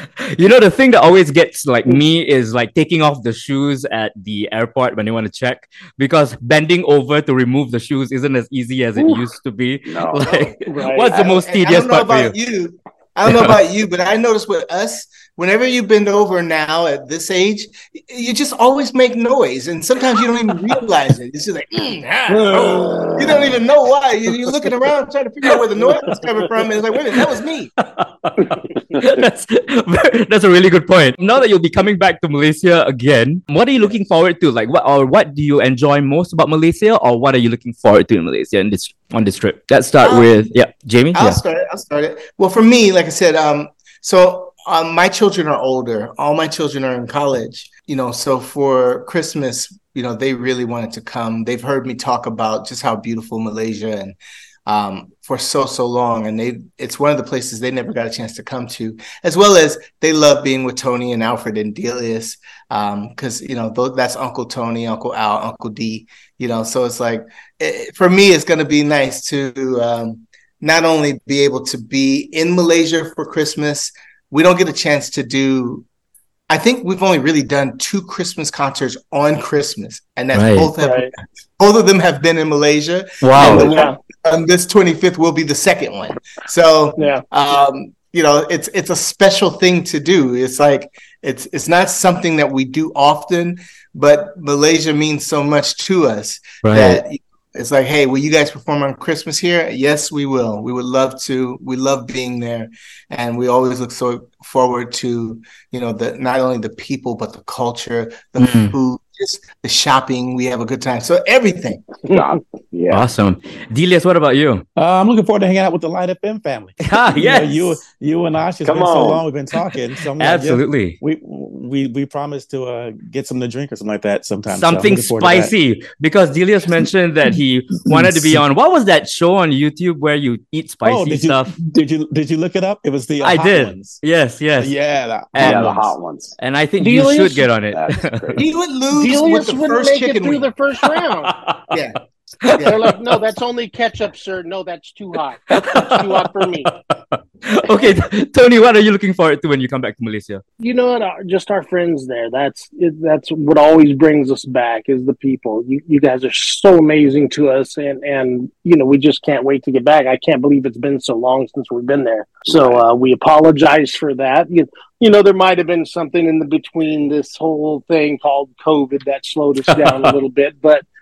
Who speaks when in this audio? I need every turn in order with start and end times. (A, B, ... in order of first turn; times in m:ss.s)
0:00.2-0:12.3 A
0:09.0-0:09.3 B
0:09.8-0:10.4 C
0:10.6-0:11.1 B
0:11.1-0:27.7 D
0:13.3-0:13.6 A
0:22.3-0:23.1 B
0:22.9-0:23.4 C
0:25.9-0:26.2 B
0:27.1-0:41.4 A
0:40.0-0:40.5 D
0:41.1-1:15.8 D
1:16.5-1:51.8 D
1:20.3-1:20.7 A
1:20.8-1:21.1 B
1:23.2-1:23.7 A
1:23.4-1:24.0 B
1:27.0-1:27.2 B
1:36.6-1:37.0 A
1:48.4-1:48.7 A
1:52.0-1:53.0 C
1:52.9-1:54.6 A
1:54.8-2:05.5 E
1:56.8-1:57.8 A
1:58.6-1:59.2 C
2:00.2-2:01.0 A
2:04.5-2:11.5 A
2:07.9-2:08.4 E
2:10.8-2:14.0 E
2:13.2-2:14.7 A
2:14.6-2:15.8 E
2:15.3-2:18.4 A
2:15.4-2:16.4 C
2:16.8-2:17.5 B
2:17.7-2:18.5 C
2:18.4-2:20.5 D
2:18.9-2:21.3 B
2:21.2-2:21.8 A
2:21.7-2:22.0 D
2:22.4-2:22.7 A
2:22.6-2:26.7 B
2:25.5-2:30.4 A
2:27.7-2:27.9 B
2:30.6-2:50.8 B
2:42.5-2:42.8 C
2:49.7-2:50.1 A